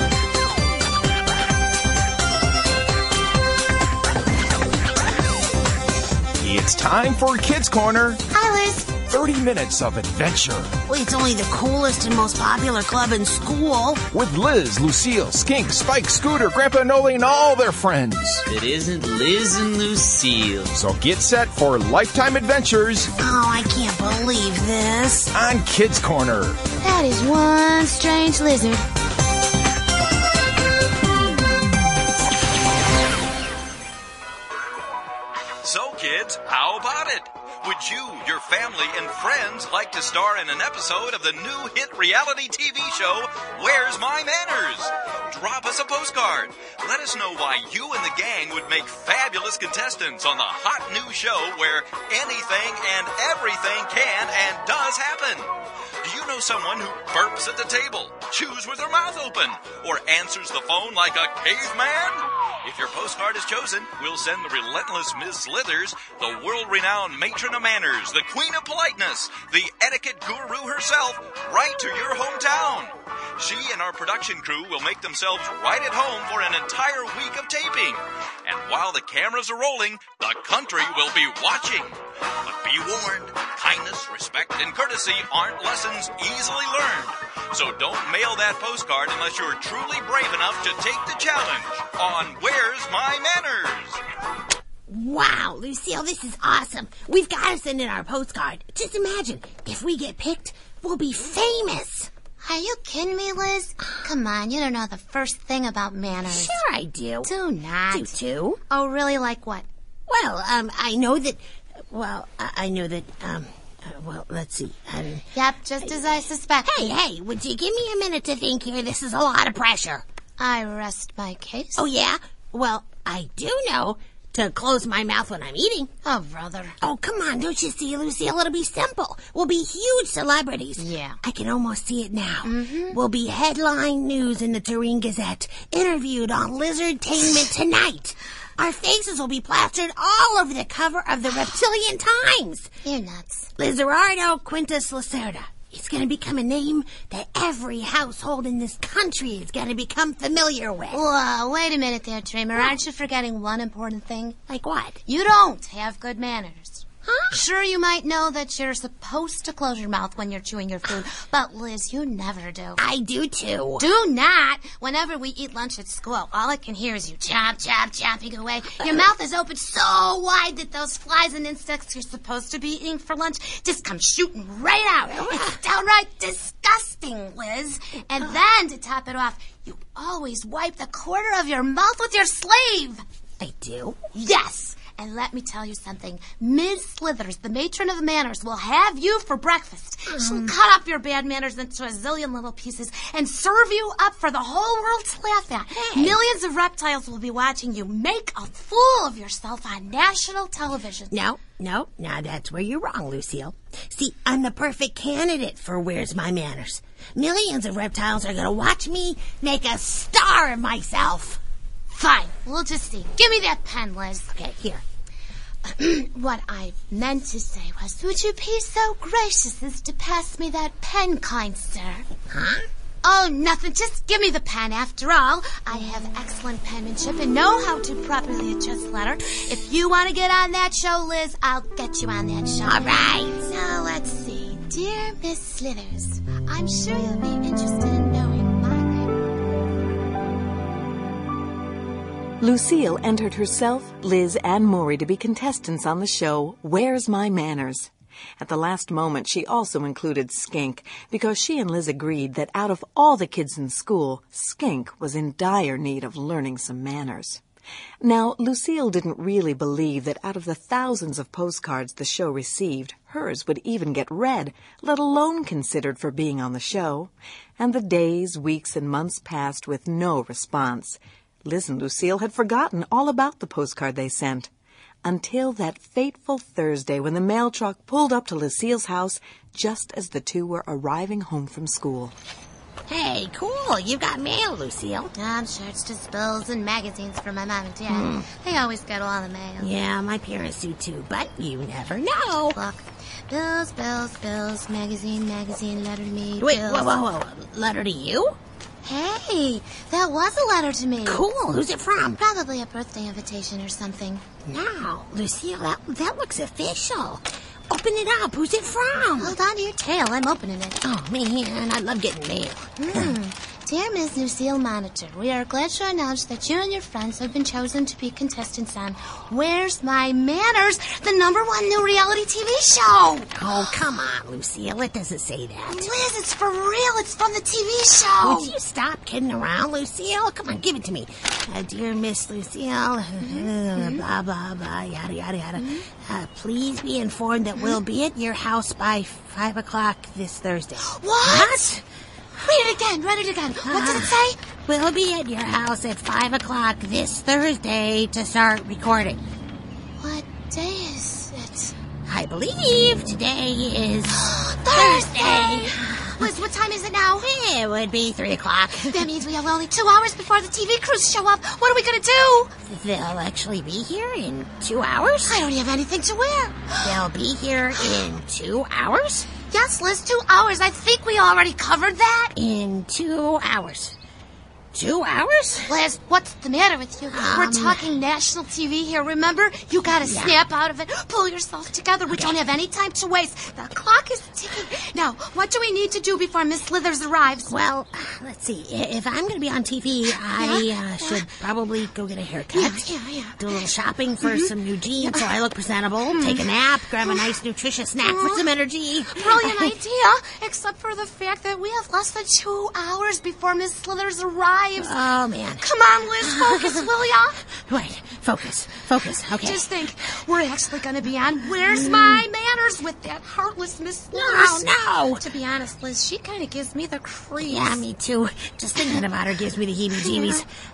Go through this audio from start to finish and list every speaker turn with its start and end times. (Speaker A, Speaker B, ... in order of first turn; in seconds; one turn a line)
Speaker A: 6.4-8.2
Speaker B: 8.3-8.9
Speaker A: 9.0-10.7
Speaker C: 10.8-14.0
Speaker A: 14.1-18.4
Speaker D: 18.5-20.8
Speaker A: 20.7-23.1
Speaker C: 23.2-25.3
Speaker A: 25.3-26.6
Speaker B: 26.8-28.8
Speaker E: 35.6-55.5
Speaker E: 56.0-94.0
Speaker C: 94.9-102.1
Speaker B: 102.4-106.6
Speaker C: 106.2-107.3
Speaker B: 107.2-108.2
Speaker C: 107.9-108.6
Speaker B: 108.7-109.6
Speaker C: 110.1-115.2
Speaker B: 115.3-116.9
Speaker C: 116.6-120.0
Speaker B: 120.4-121.8
Speaker C: 121.8-125.9
Speaker B: 126.0-126.8
Speaker C: 126.8-142.7
Speaker B: 130.8-131.2
Speaker B: 132.4-133.0
Speaker B: 142.8-143.5
Speaker C: 143.6-151.0
Speaker B: 150.9-154.4
Speaker C: 154.5-155.0
Speaker B: 155.1-162.8
Speaker C: 157.0-157.4
Speaker C: 162.8-163.8
Speaker B: 163.8-183.0
Speaker C: 175.1-175.6
Speaker C: 183.4-184.0
Speaker B: 184.1-201.2
Speaker C: 190.1-190.5
Speaker C: 195.7-196.2
Speaker C: 201.1-211.4
Speaker B: 211.9-214.3
Speaker C: 214.3-214.8
Speaker B: 215.6-222.1
Speaker C: 222.3-222.7
Speaker B: 223.0-239.2
Speaker C: 232.6-233.4
Speaker F: 242.4-257.4
Speaker F: 258.0-274.5
Speaker F: 275.0-282.1
Speaker C: 282.9-285.1
Speaker B: 285.1-289.7
Speaker C: 287.9-288.3
Speaker C: 289.6-292.6
Speaker B: 292.5-297.0
Speaker C: 296.4-298.4
Speaker B: 298.8-301.2
Speaker C: 301.0-302.2
Speaker B: 302.2-304.2
Speaker C: 304.4-309.3
Speaker B: 309.2-310.8
Speaker C: 310.8-313.1
Speaker B: 312.8-323.3
Speaker C: 323.3-325.9
Speaker B: 325.6-328.5
Speaker C: 328.2-341.8
Speaker B: 333.2-334.0
Speaker B: 335.6-335.9
Speaker B: 340.8-341.7
Speaker B: 342.4-344.4
Speaker C: 343.6-349.2
Speaker B: 350.0-351.7
Speaker C: 352.1-354.2
Speaker B: 354.1-357.3
Speaker C: 354.7-356.3
Speaker C: 357.2-359.0
Speaker B: 358.8-362.5
Speaker C: 362.6-365.4
Speaker B: 365.2-367.0
Speaker C: 366.8-369.3
Speaker B: 369.5-372.3
Speaker C: 372.3-373.9
Speaker C: 374.7-375.8
Speaker B: 375.7-387.5
Speaker C: 377.1-377.9
Speaker C: 380.0-380.4
Speaker C: 387.4-399.7
Speaker B: 390.4-391.3
Speaker B: 392.5-393.4
Speaker B: 394.2-394.5
Speaker B: 395.0-395.3
Speaker B: 396.1-396.4
Speaker B: 398.0-398.5
Speaker B: 399.1-404.9
Speaker C: 404.8-405.6
Speaker B: 405.6-407.4
Speaker C: 406.2-406.9
Speaker C: 407.5-409.7
Speaker B: 409.3-417.8
Speaker C: 411.7-412.1
Speaker C: 414.1-415.2
Speaker C: 417.4-420.5
Speaker B: 420.0-420.4